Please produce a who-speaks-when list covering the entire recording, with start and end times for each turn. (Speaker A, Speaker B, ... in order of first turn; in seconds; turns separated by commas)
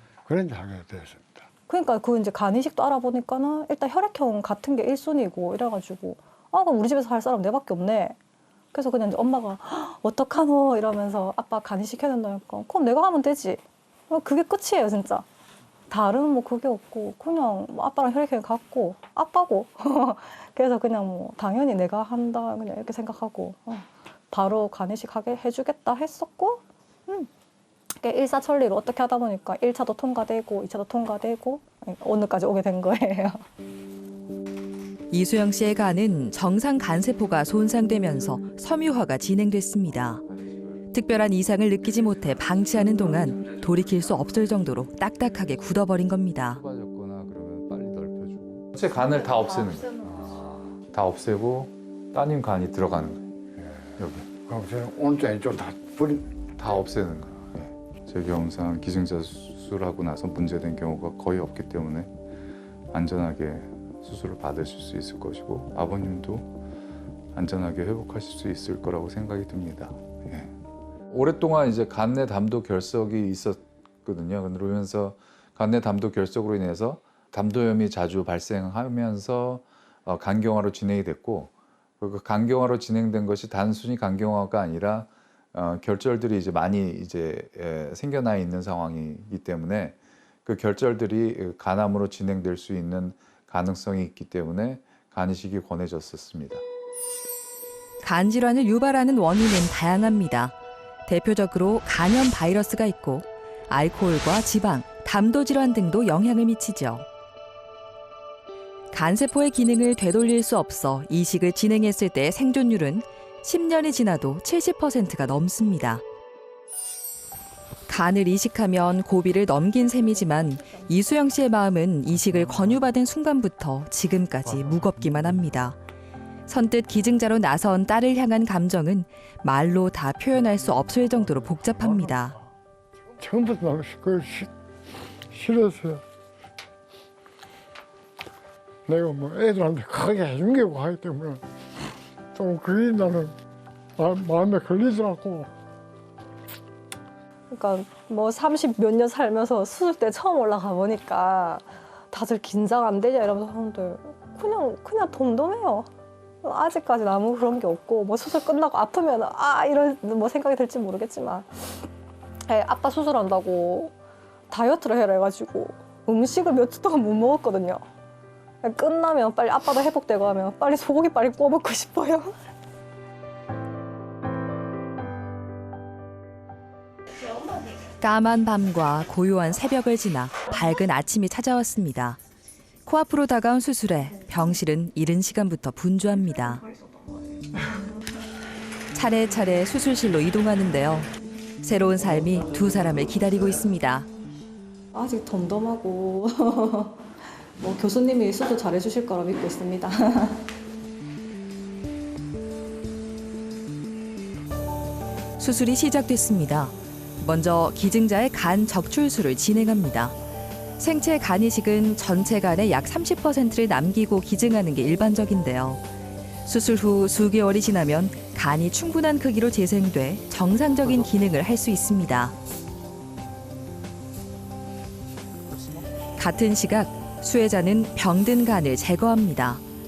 Speaker A: 0.3-1.5, Speaker B: 1.7-8.2, Speaker B: 8.7-15.2, Speaker B: 15.9-27.3, Speaker B: 28.0-33.4, Speaker C: 35.1-40.2, Speaker C: 40.9-46.6, Speaker D: 46.5-50.0, Speaker A: 50.0-50.8, Speaker D: 50.9-53.2, Speaker A: 53.6-56.3, Speaker D: 54.0-54.3, Speaker D: 56.6-62.1, Speaker D: 62.9-66.5, Speaker D: 67.3-70.5, Speaker D: 71.1-96.6, Speaker C: 98.0-100.5, Speaker C: 101.1-107.1, Speaker C: 108.9-116.0, Speaker C: 117.9-125.8, Speaker C: 126.5-132.4, Speaker A: 133.2-134.5, Speaker A: 135.3-136.0, Speaker A: 138.9-141.4, Speaker A: 142.3-143.3, Speaker A: 144.0-145.5, Speaker B: 147.5-155.9, Speaker B: 156.4-161.9, Speaker B: 162.5-163.9, Speaker B: 164.5-167.8, Speaker B: 168.6-172.3, Speaker C: 178.0-182.2, Speaker C: 182.9-186.6, Speaker C: 188.9-191.1, Speaker C: 191.6-194.1, Speaker B: 194.9-200.4, Speaker C: 205.4-210.2, Speaker C: 210.8-215.8, Speaker C: 216.5-222.3, Speaker C: 226.2-229.6